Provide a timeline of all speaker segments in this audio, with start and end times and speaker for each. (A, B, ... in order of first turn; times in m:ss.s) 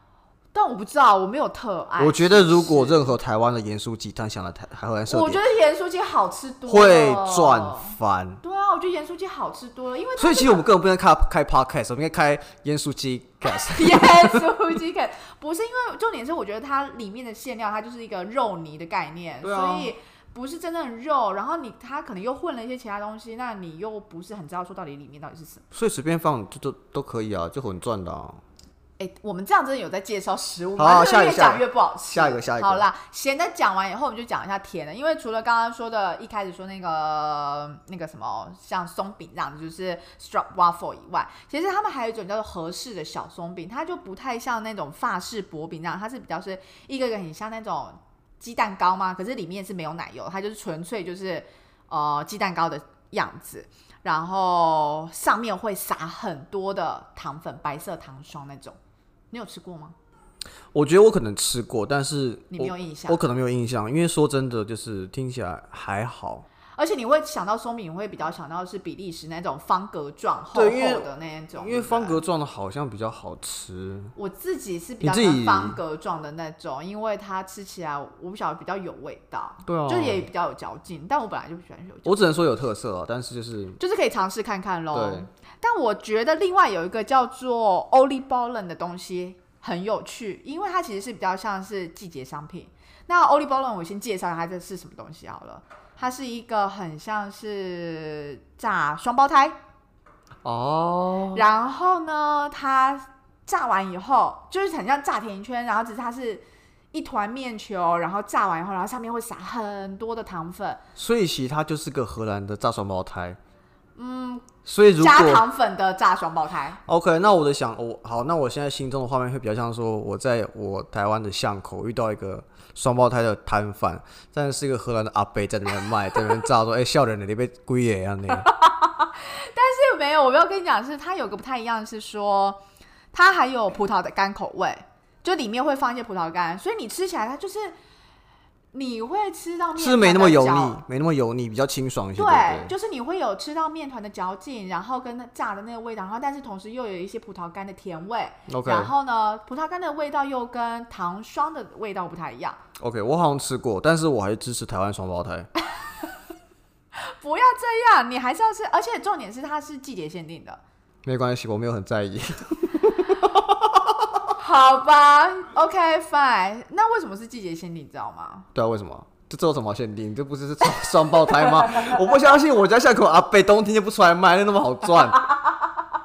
0:00.5-0:03.1 A
0:02.0-0:05.4 B
0:05.1-0:10.6 A
0:06.6-0:08.4 B
0:10.2-0:14.5 B
0:13.4-0:25.6 A
0:19.4-0:19.9 B
0:25.7-0:28.4 B
0:29.0-0:58.8 A
0:30.8-0:32.8 B
0:59.3-1:00.0 A
1:00.7-1:06.4 B
1:02.5-1:03.2 A
1:06.8-1:12.2 A
1:10.5-1:14.1 B
1:14.2-1:22.2 A
1:15.0-1:15.8 B
1:19.6-1:20.2 B
1:22.0-1:23.8 B
1:23.8-1:39.6 A
1:24.9-1:25.3 B
1:40.4-1:41.4 B
1:41.3-1:50.8 A
1:51.0-1:53.4 B
1:54.0-1:56.8 A
1:54.6-1:55.4 B
1:56.8-2:08.5 B
2:08.4-2:12.6 A
2:13.1-2:17.8 A
2:18.7-2:20.8 A
2:19.8-2:22.7 B
2:22.2-2:32.6 A
2:28.5-2:28.9 B
2:32.8-2:35.5 B
2:37.0-2:40.6 A
2:41.0-2:44.3 B
2:44.4-2:48.5 A
2:48.5-2:55.3 B